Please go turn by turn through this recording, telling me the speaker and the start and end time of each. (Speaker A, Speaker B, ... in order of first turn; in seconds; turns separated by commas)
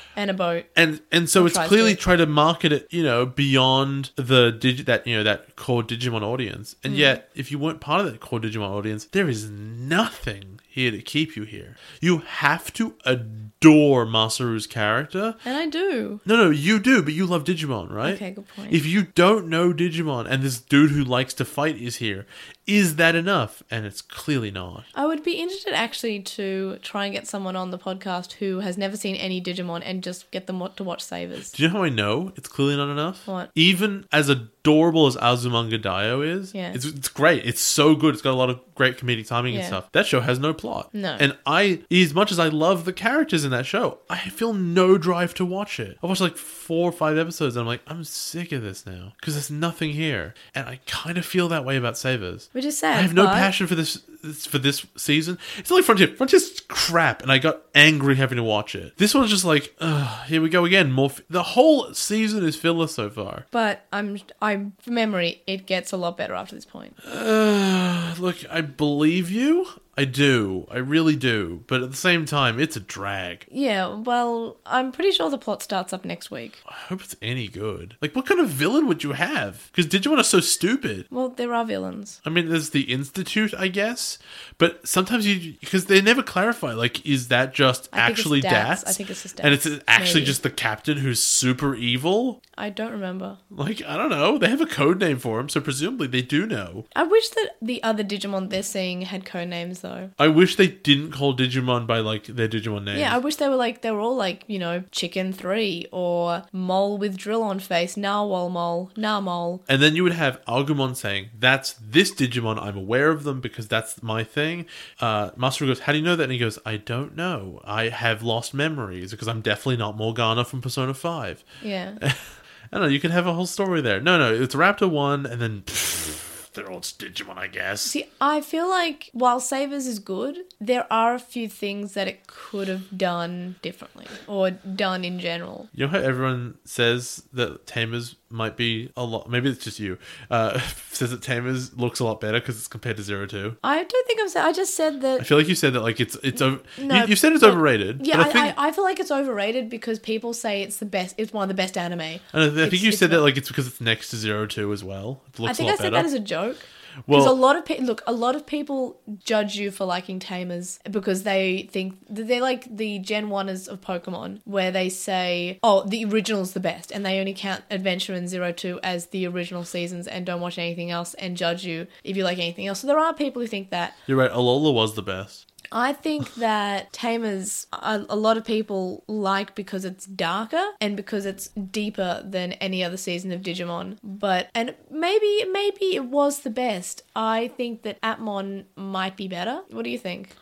Speaker A: 0.2-0.7, Speaker B: 0.8-15.4, Speaker A: 1.4-2.0, Speaker A: 6.9-7.2, Speaker A: 15.4-16.2, Speaker B: 16.2-24.9, Speaker A: 18.0-18.8, Speaker A: 24.9-31.6, Speaker B: 31.5-63.5, Speaker A: 36.5-36.8, Speaker A: 39.5-39.8, Speaker A: 40.9-41.3, Speaker A: 52.5-53.5, Speaker A: 63.5-67.0, Speaker B: 67.0-73.5, Speaker A: 73.5-76.6, Speaker B: 76.7-81.1, Speaker A: 81.1-82.2, Speaker B: 82.2-92.4, Speaker A: 87.9-90.4, Speaker A: 92.6-93.4, Speaker B: 93.5-96.9, Speaker A: 96.9-100.1, Speaker B: 100.2-103.2, Speaker A: 102.9-109.6, Speaker B: 109.7-121.4, Speaker A: 121.6-122.0, Speaker B: 122.0-127.9, Speaker A: 127.9-135.7, Speaker B: 135.7-143.6, Speaker A: 143.6-145.3, Speaker B: 145.2-148.6, Speaker A: 146.8-153.2, Speaker B: 152.3-156.1, Speaker A: 155.4-174.0, Speaker B: 157.1-157.4, Speaker B: 174.1-175.4, Speaker A: 175.7-190.3